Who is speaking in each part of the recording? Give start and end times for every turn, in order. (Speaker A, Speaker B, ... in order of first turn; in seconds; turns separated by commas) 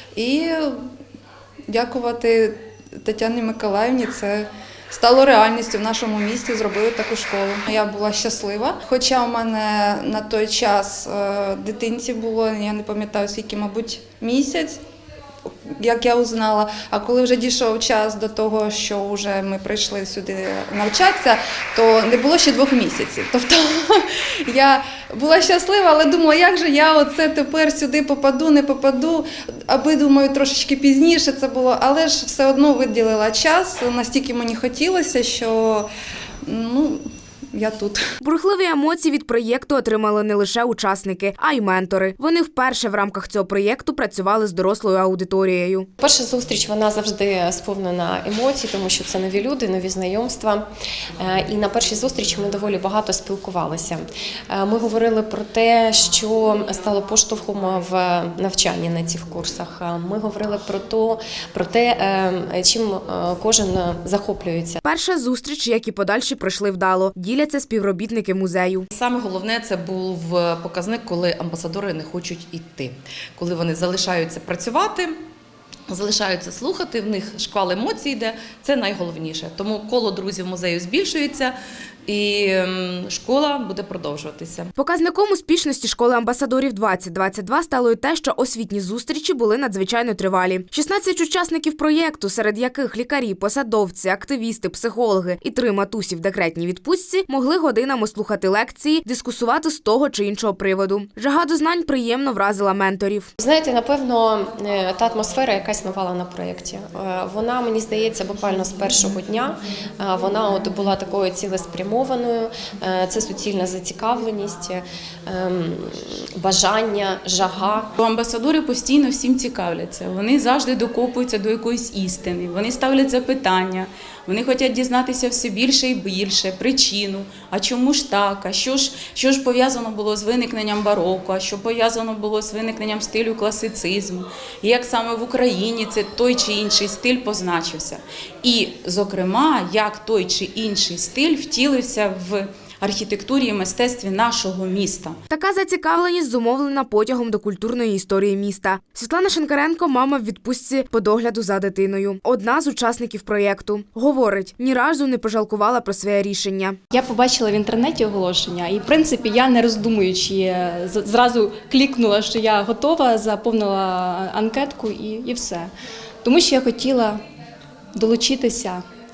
Speaker A: 0.1-0.8, Speaker A: 1.7-14.8, Speaker A: 15.8-35.9, Speaker A: 36.5-38.0, Speaker B: 38.2-45.9, Speaker C: 46.0-50.6, Speaker C: 51.2-64.8, Speaker B: 64.8-68.9, Speaker D: 68.9-75.1, Speaker D: 75.9-81.5, Speaker D: 82.1-84.7, Speaker B: 84.8-103.3, Speaker C: 103.4-117.9, Speaker E: 118.0-145.2, Speaker B: 145.3-156.8, Speaker F: 156.9-165.7, Speaker F: 166.2-167.2, Speaker F: 167.9-168.8